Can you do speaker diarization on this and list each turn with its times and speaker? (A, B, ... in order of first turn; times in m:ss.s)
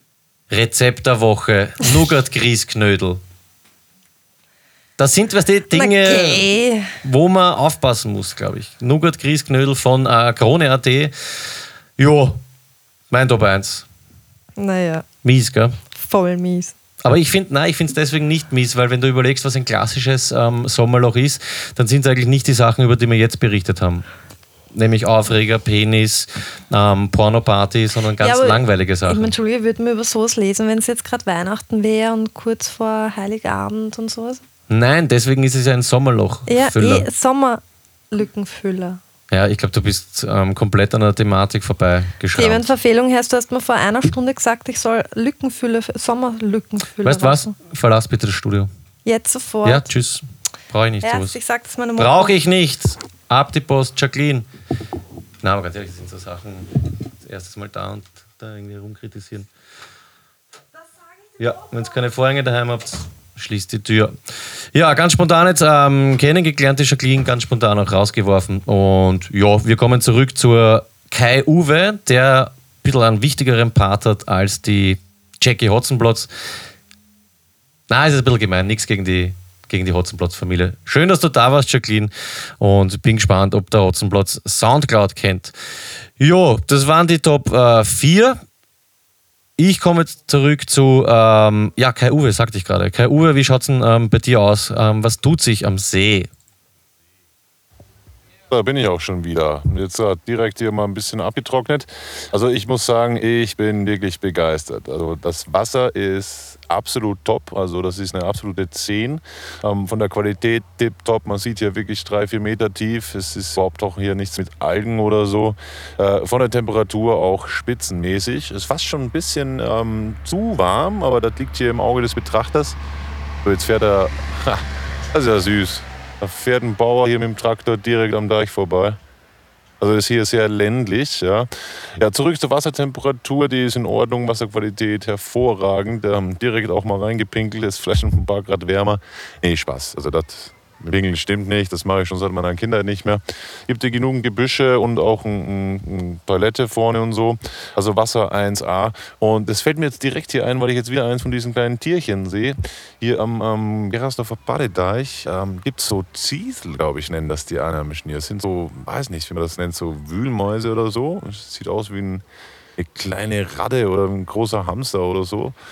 0:00.5-0:03.2 A
0:05.0-0:06.5 A
0:05.7-0:06.9 B
0:07.0-0:12.4 A
0:13.1-0:13.8 A
0:14.6-0:15.0 B
0:15.2-0:15.8 A
0:15.9-0:16.7 B
0:17.0-0:24.0 A
0:24.7-0:29.3 A
0:28.2-0:34.4 B
0:34.7-0:37.1 A
0:36.5-0:39.0 B
0:39.3-0:42.7 A
0:42.3-0:47.5 B
0:47.0-0:48.7 A
0:49.0-0:49.8 B
0:49.6-0:51.4 A
0:51.0-0:52.3 B
0:52.0-0:54.5 A
0:55.4-0:59.5 A
1:01.4-1:04.2 A
1:04.7-1:16.3 A
1:17.9-1:25.5 A
1:26.2-1:28.4 A
1:29.6-1:36.3 A
1:38.5-2:02.8 C
2:03.4-2:09.0 C
2:09.8-2:42.2 C
2:42.8-2:45.6 C